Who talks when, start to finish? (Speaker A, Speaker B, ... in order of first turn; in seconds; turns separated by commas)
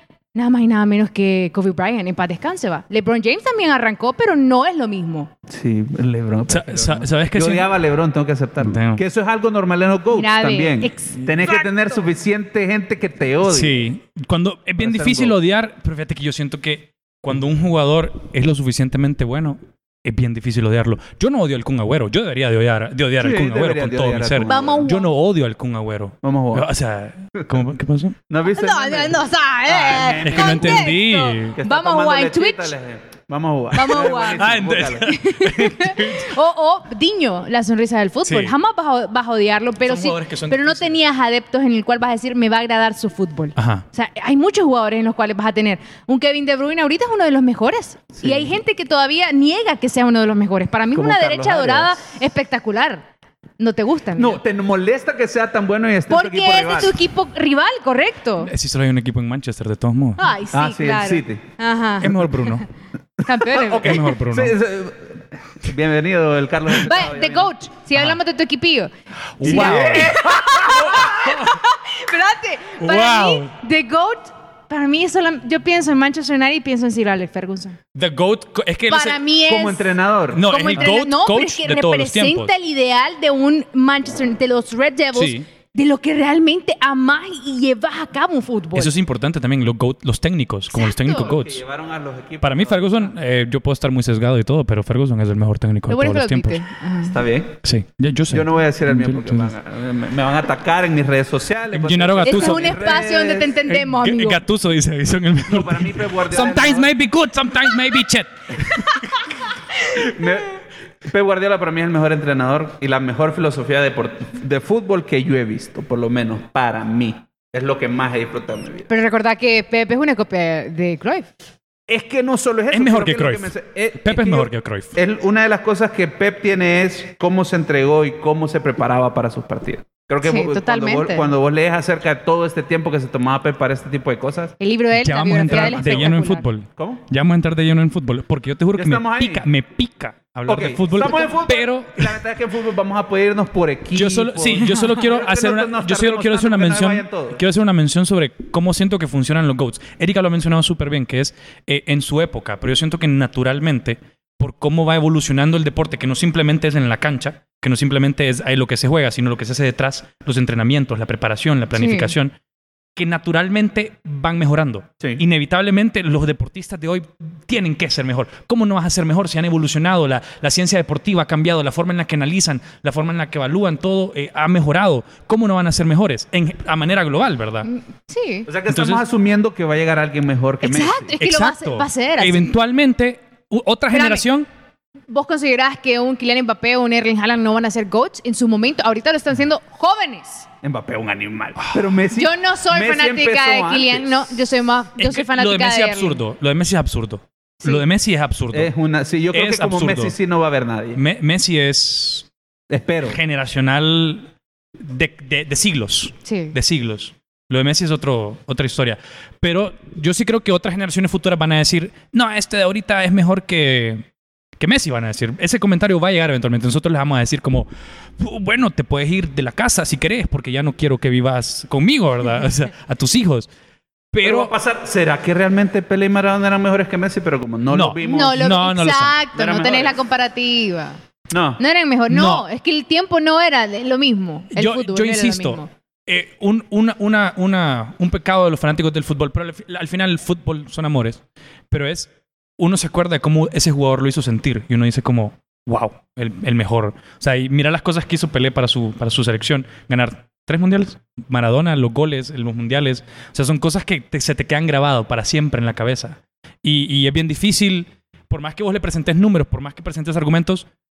Speaker A: 0.3-5.3, Speaker B: 5.5-13.8, Speaker C: 6.5-7.7, Speaker C: 8.6-9.0, Speaker A: 10.1-11.7, Speaker C: 13.4-28.2, Speaker B: 14.8-15.4, Speaker B: 23.2-24.9, Speaker A: 24.4-25.1, Speaker B: 26.2-26.7, Speaker B: 28.3-30.9, Speaker A: 28.5-32.7, Speaker C: 30.2-31.6, Speaker B: 31.6-35.2, Speaker A: 33.7-34.5, Speaker C: 33.9-36.3, Speaker A: 35.0-53.0, Speaker C: 38.3-38.5, Speaker C: 39.9-41.0, Speaker C: 43.6-43.8, Speaker B: 48.2-48.5, Speaker B: 50.9-52.1, Speaker A: 53.6-54.4, Speaker B: 54.1-57.0, Speaker A: 56.1-58.5, Speaker C: 58.4-60.3, Speaker A: 60.2-62.5, Speaker B: 60.5-61.4, Speaker C: 62.0-62.7, Speaker B: 63.2-67.5, Speaker A: 63.2-64.0, Speaker C: 63.8-64.6, Speaker A: 66.8-68.9, Speaker C: 69.4-70.2, Speaker B: 69.4-71.2, Speaker A: 69.4-77.8, Speaker C: 72.8-73.5, Speaker C: 77.9-79.2, Speaker A: 78.9-88.9, Speaker B: 79.5-80.9, Speaker C: 80.3-82.5, Speaker C: 85.1-85.5, Speaker C: 88.8-91.6, Speaker A: 90.7-91.3, Speaker B: 91.2-93.1, Speaker C: 92.4-96.6, Speaker A: 95.9-97.2, Speaker B: 97.0-97.6, Speaker C: 97.6-99.5, Speaker B: 98.3-103.6, Speaker C: 101.7-103.0, Speaker A: 102.2-104.4, Speaker C: 103.7-109.1, Speaker B: 105.5-106.9, Speaker B: 110.0-118.9, Speaker A: 118.9-121.3, Speaker B: 121.9-134.5, Speaker C: 122.7-124.9, Speaker A: 130.2-131.3, Speaker A: 134.6-136.4, Speaker C: 135.0-142.2, Speaker B: 135.5-137.0, Speaker B: 138.8-139.4, Speaker B: 140.5-147.4, Speaker C: 143.9-162.3, Speaker A: 144.7-144.9, Speaker A: 161.7-162.1, Speaker C: 162.9-177.7, Speaker A: 177.6-178.5, Speaker B: 178.4-181.1, Speaker C: 178.7-179.0, Speaker A: 180.6-182.5, Speaker C: 181.2-184.5, Speaker A: 183.9-184.2, Speaker A: 185.1-190.5, Speaker B: 190.6-194.3, Speaker A: 192.1-196.2, Speaker C: 195.0-198.7, Speaker B: 198.5-201.0, Speaker C: 199.3-200.1, Speaker C: 200.9-202.3, Speaker B: 202.7-203.2, Speaker C: 203.1-214.1, Speaker A: 206.2-206.6, Speaker C: 214.6-223.5, Speaker C: 224.1-224.5, Speaker B: 224.2-228.5, Speaker C: 227.7-229.2, Speaker A: 228.0-231.0, Speaker B: 229.4-229.9, Speaker B: 231.3-231.6, Speaker A: 231.6-235.7, Speaker C: 232.1-232.4, Speaker C: 234.5-260.6